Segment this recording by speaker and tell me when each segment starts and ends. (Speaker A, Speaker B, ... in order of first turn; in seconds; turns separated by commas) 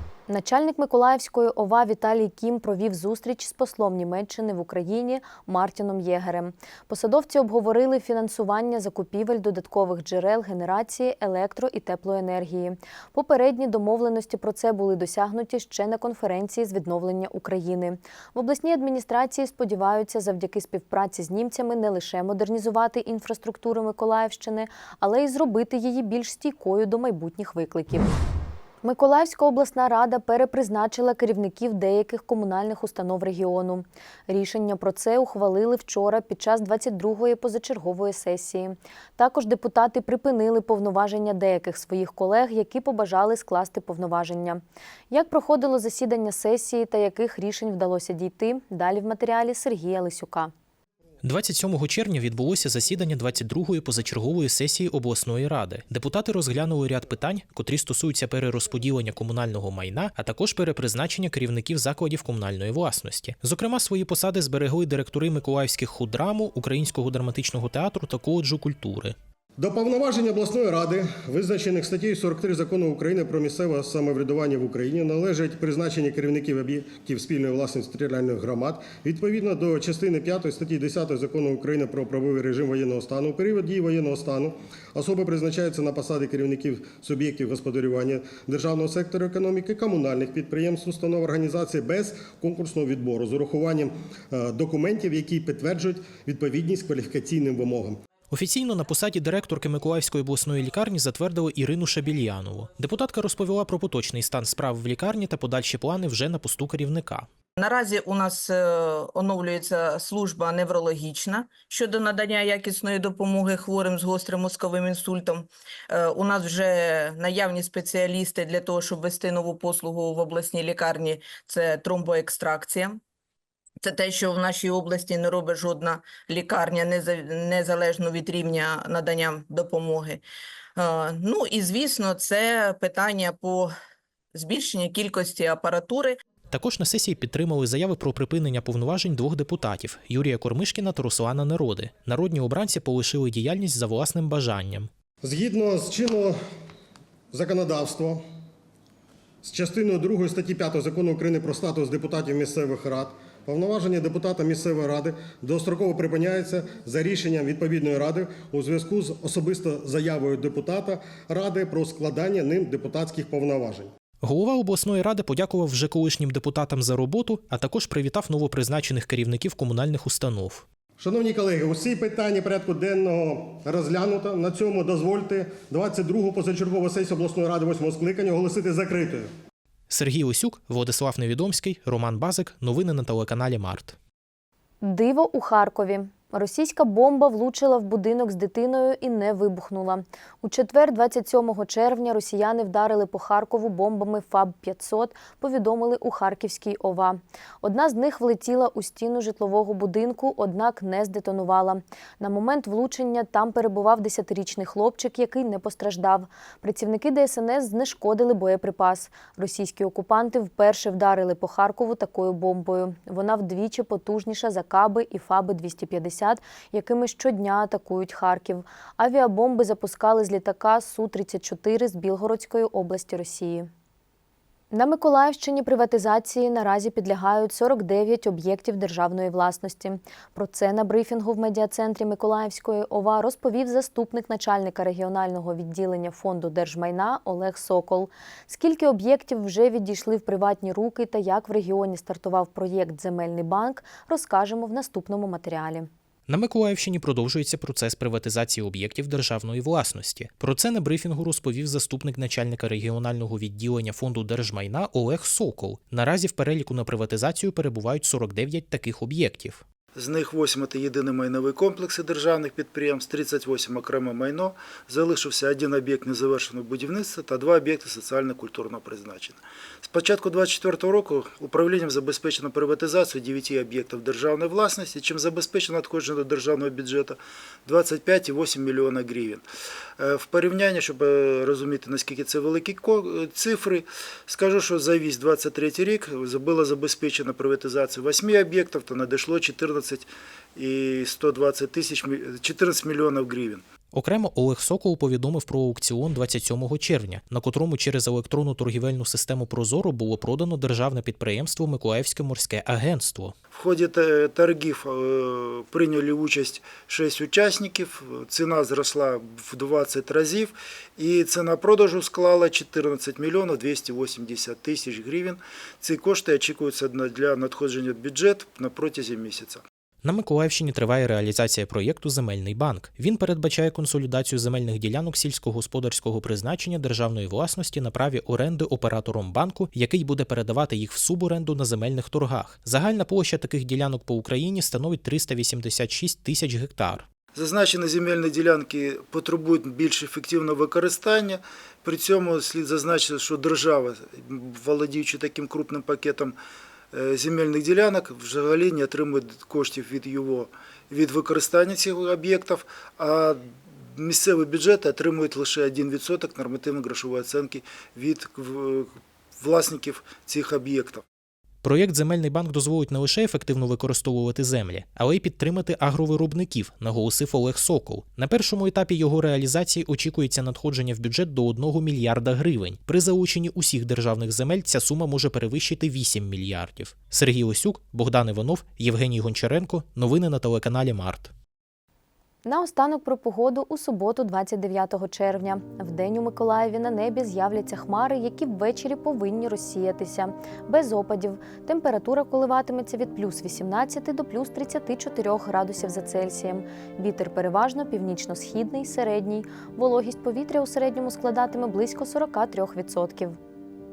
Speaker A: 0.3-28.1, Speaker A: 28.8-50.5, Speaker B: 51.2-69.1, Speaker C: 69.6-98.0, Speaker B: 98.3-107.3, Speaker D: 107.6-123.0, Speaker D: 123.8-130.2, Speaker D: 130.8-133.7, Speaker D: 134.3-136.2, Speaker B: 136.5-144.9, Speaker C: 145.2-146.3, Speaker C: 147.3-148.2, Speaker C: 149.4-163.9, Speaker B: 164.2-170.6, Speaker C: 171.0-179.3, Speaker B: 179.9-184.0, Speaker A: 184.8-223.7, Speaker A: 224.7-245.9, Speaker B: 246.3-259.6, Speaker E: 259.9-279.4, Speaker E: 280.0-290.0, Speaker E: 290.6-293.6, Speaker B: 293.9-303.3, Speaker E: 303.5-319.6, Speaker B: 320.0-337.1, Speaker E: 337.3-346.3, Speaker E: 346.9-353.4, Speaker E: 354.0-361.0, Speaker B: 361.6-381.3, Speaker A: 382.4-403.4